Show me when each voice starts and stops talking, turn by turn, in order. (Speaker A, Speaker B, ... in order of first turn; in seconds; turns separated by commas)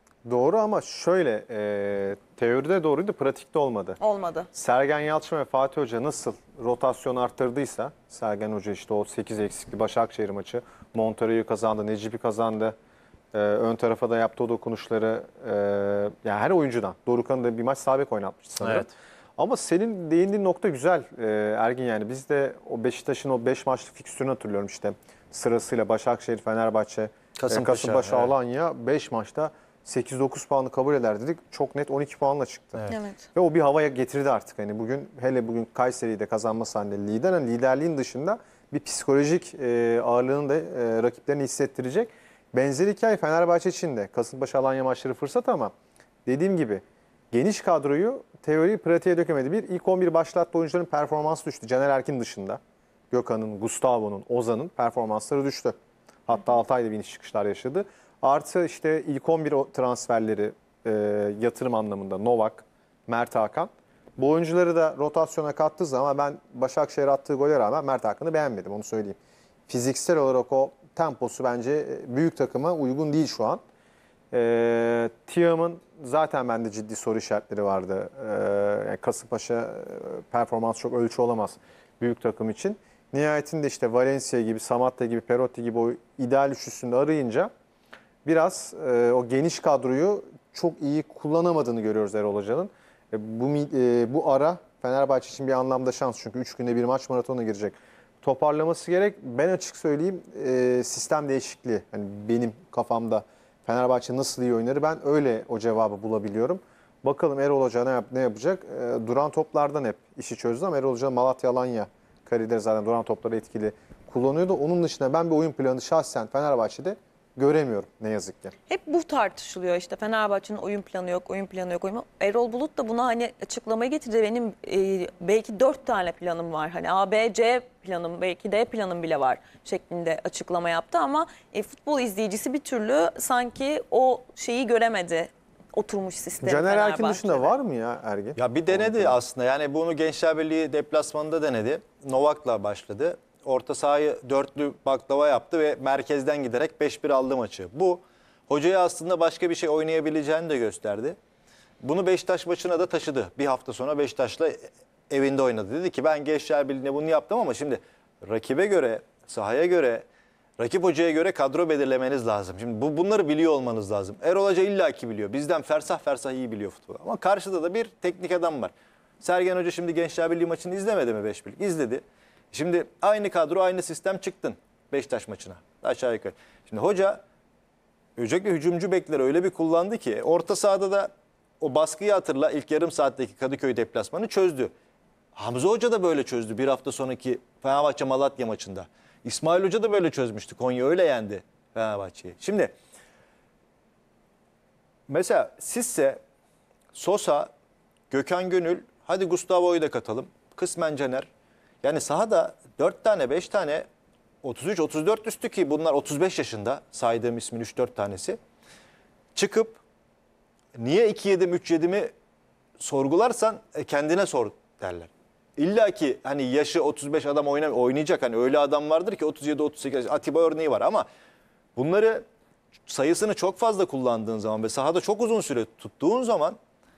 Speaker A: 0.2-4.0, Speaker B: 4.0-4.5, Speaker A: 4.5-12.8, Speaker A: 13.3-45.7, Speaker C: 18.6-18.9, Speaker C: 27.4-28.3, Speaker B: 32.9-33.3, Speaker A: 46.2-52.6, Speaker A: 53.1-69.2, Speaker A: 69.7-73.6, Speaker A: 74.3-87.5, Speaker A: 88.2-118.5, Speaker B: 118.7-137.5, Speaker A: 136.4-139.2, Speaker C: 138.4-151.2, Speaker C: 151.8-160.1, Speaker C: 160.6-177.2, Speaker C: 178.2-184.7, Speaker C: 185.3-192.7, Speaker C: 195.1-196.2, Speaker C: 196.9-197.5, Speaker C: 198.1-201.3, Speaker C: 201.8-203.9, Speaker C: 204.4-208.4, Speaker C: 209.3-209.8, Speaker C: 210.8-212.1, Speaker C: 212.8-221.1, Speaker C: 221.8-222.2, Speaker C: 222.9-226.6